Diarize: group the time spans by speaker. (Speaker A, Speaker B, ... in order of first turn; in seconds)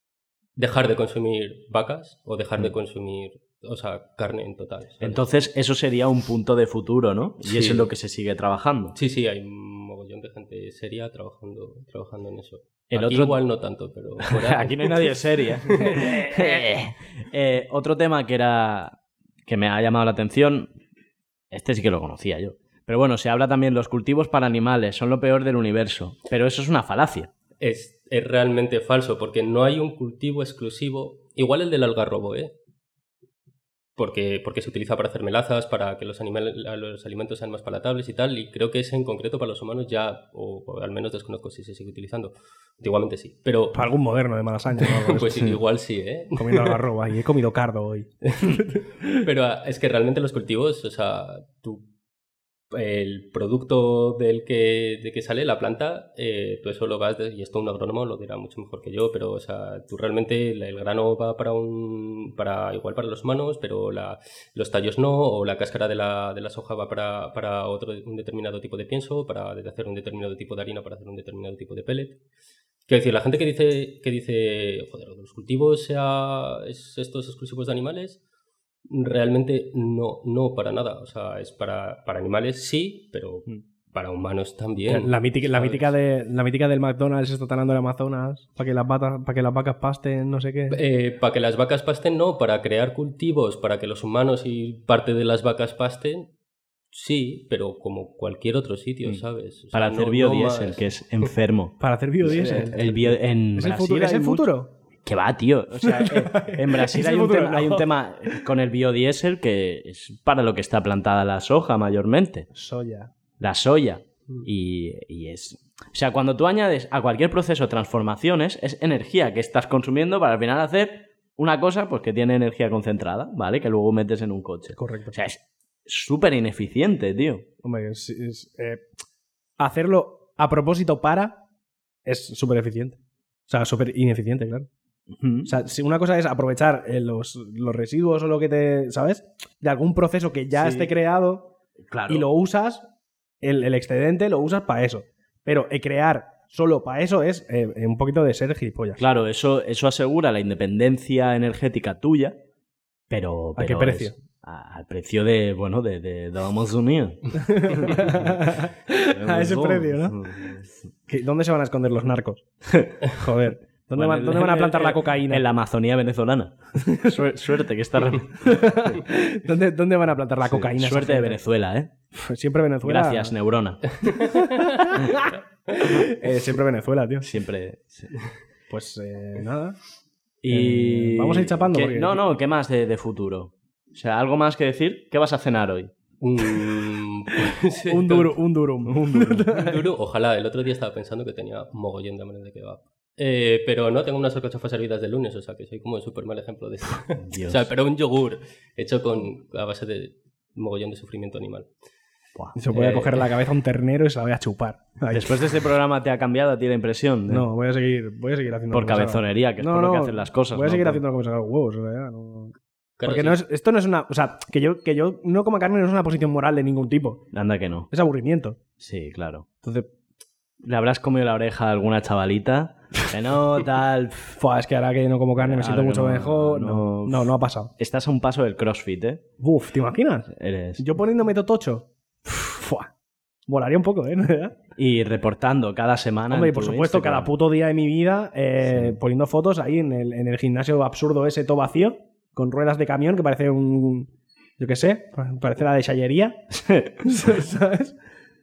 Speaker A: 0.6-5.2, 7.5-7.8, 8.9-15.1, 15.7-16.6, 27.6-32.5, 34.0-43.9, 44.8-46.8, 49.1-51.9, 52.7-72.2, 72.9-78.2, 78.9-86.0, 90.7-96.3, 96.9-100.8, 174.1-175.4, 186.2-188.4, 189.5-201.7, 213.0-213.4
Speaker B: 5.0-9.0, 12.9-13.4, 14.2-20.7, 21.5-27.3, 99.0-104.5, 105.0-112.5, 113.4-127.5, 135.1-135.5, 140.5-140.9, 141.9-142.3, 149.0-152.4, 153.1-160.8, 163.9-169.0, 170.4-171.9, 172.8-174.0, 177.2-178.1, 180.4-185.9, 189.0-189.4, 197.2-197.7, 202.3-203.3, 205.1-207.5, 208.7-211.0, 217.3-217.9, 218.8-219.5, 220.6-224.4, 225.4-229.2, 230.3-230.9, 234.8-237.3, 238.6-239.0, 246.6-247.0
Speaker C: 43.7-45.6, 46.4-49.1, 84.9-90.8, 101.8-104.7, 105.9-108.4, 112.5-113.1, 124.8-125.2, 127.6-128.8, 129.6-131.4, 132.1-134.7, 135.4-141.5, 142.1-142.9, 143.4-149.0, 153.6-154.2, 157.4-160.3, 161.1-165.4, 166.8-167.1, 168.4-171.4, 172.2-173.4, 174.2-177.3, 178.7-179.8, 180.5-182.2, 187.9-189.8, 202.6-205.3, 207.3-212.5, 213.1-217.3, 217.9-218.6, 219.6-219.9, 224.4-227.7, 229.4-232.9, 233.5-234.6, 236.3-246.4, 247.0-247.9